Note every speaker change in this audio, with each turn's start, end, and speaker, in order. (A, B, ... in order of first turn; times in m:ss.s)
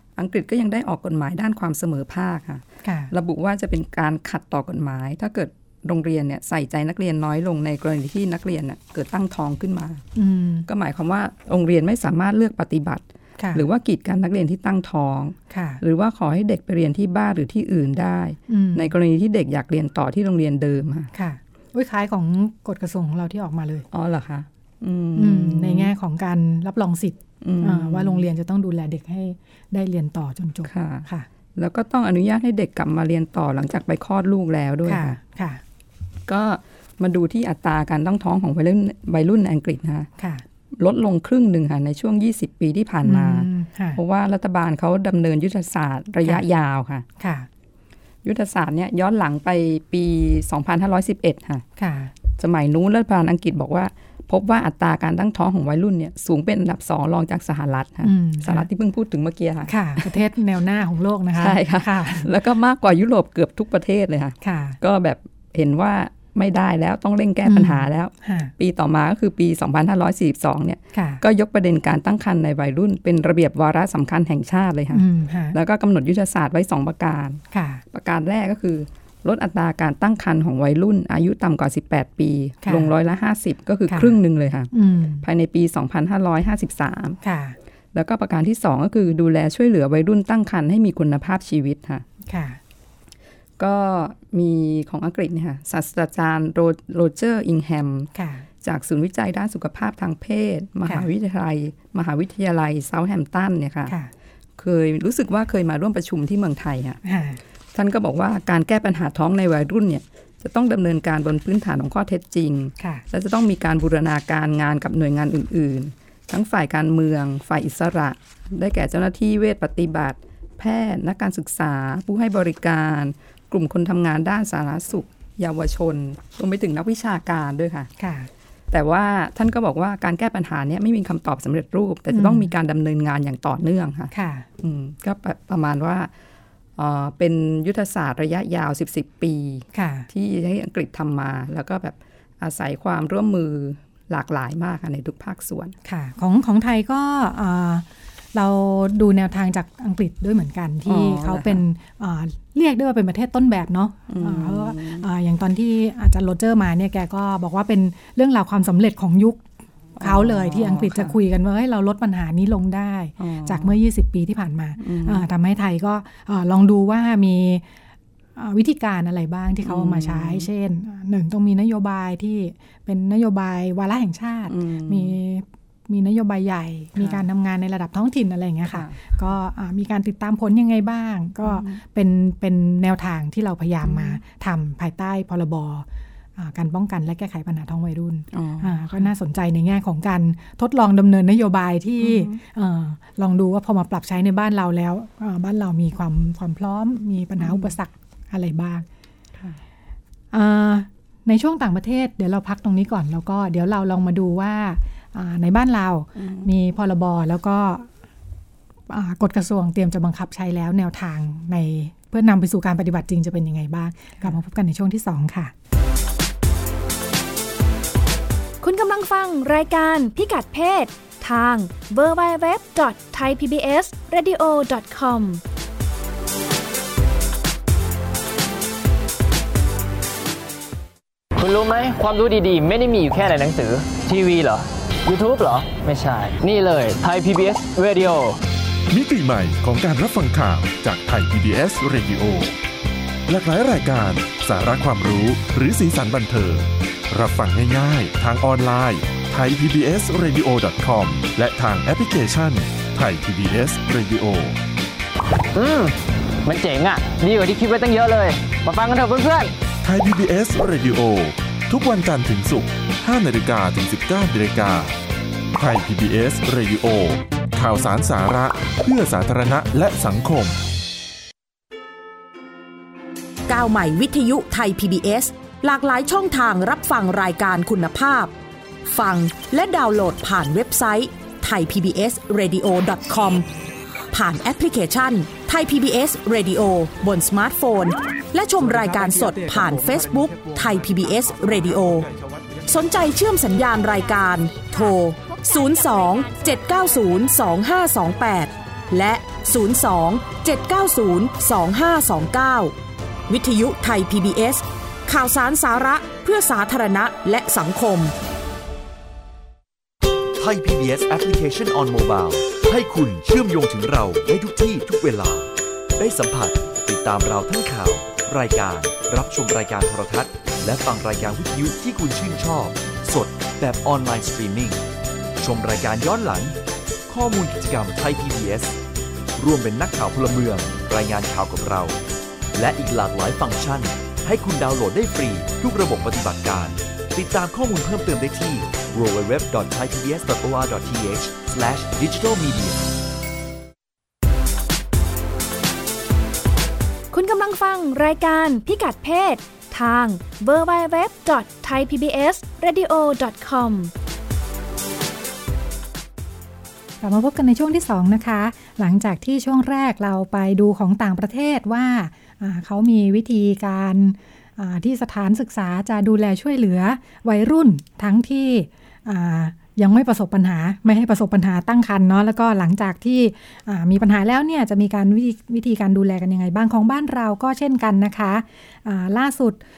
0:00.2-0:10.0 A
0:02.8-0:03.1 B
0:10.2-0:10.7 B
0:10.6-0:21.1 A
0:13.4-0:13.6 B
0:15.5-0:15.8 B
0:18.5-0:18.9 B
0:21.1-0:23.9 B
0:23.9-0:25.9 A
0:25.2-0:31.3 B
0:27.4-0:28.2 A
0:30.6-0:35.2 A
0:34.8-0:35.6 B
0:36.3-0:40.1 A
0:40.2-0:40.4 B
0:40.8-0:47.0 A
0:43.0-0:44.0 B
0:47.2-0:47.5 B
0:48.2-0:51.6 A
0:51.8-0:52.1 B
0:52.4-1:00.2 A
0:58.0-0:58.7 B
0:59.7-1:02.3 B
1:01.3-1:17.4 A
1:04.4-1:04.8 B
1:07.4-1:08.5 B
1:10.9-1:11.2 B
1:14.9-1:15.6 B
1:17.5-1:17.8 B
1:17.9-1:27.2 A
1:22.6-1:22.9 B
1:23.9-1:24.2 B
1:24.7-1:25.2 B
1:27.2-1:27.6 B
1:27.9-1:32.0 A
1:32.2-1:32.6 B
1:33.6-1:38.1 A
1:38.1-1:38.4 B
1:38.6-1:44.0 A
1:44.6-1:47.0 A
1:47.0-1:47.4 B
1:47.7-2:07.9 A
2:08.0-2:08.3 B
2:08.7-2:16.1 A
2:12.1-2:12.5 B
2:14.1-2:14.5 B
2:16.8-2:25.7 A
2:19.7-2:20.1 B
2:25.8-2:39.4 B
2:30.8-2:31.6 A
2:34.1-2:35.1 A
2:40.0-2:41.2 A
2:40.0-2:47.6 B
2:43.2-2:43.8 A
2:44.8-2:45.2 A
2:48.4-3:05.8 B
2:49.6-2:50.5 A
2:54.5-2:55.1 A
2:57.0-2:57.2 A
2:58.7-2:59.1 A
3:01.4-3:01.8 A
3:03.8-3:04.2 A
3:06.4-3:18.8 B
3:08.3-3:09.1 A
3:12.0-3:12.4 A
3:17.4-3:17.7 A
3:20.3-3:27.9 B
3:26.2-3:26.5 A
3:28.9-3:35.5 B
3:38.6-3:45.4 C
3:51.4-3:58.4 D
3:58.9-4:02.6 E
4:03.3-4:14.6 E
4:15.5-4:19.5 D
4:19.8-4:25.0 E
4:25.6-4:30.6 E
4:33.5-4:38.3 F
4:38.8-4:43.4 F
4:44.1-4:52.1 F
4:52.6-5:02.7 F
5:03.3-5:08.1 F
5:10.4-5:24.8 G
5:25.4-5:26.6 G
5:27.1-5:28.8 G
5:29.4-5:32.0 G
5:32.5-5:42.8 G
5:48.6-5:49.1 C
5:50.2-5:53.8 C
5:57.0-6:19.6 B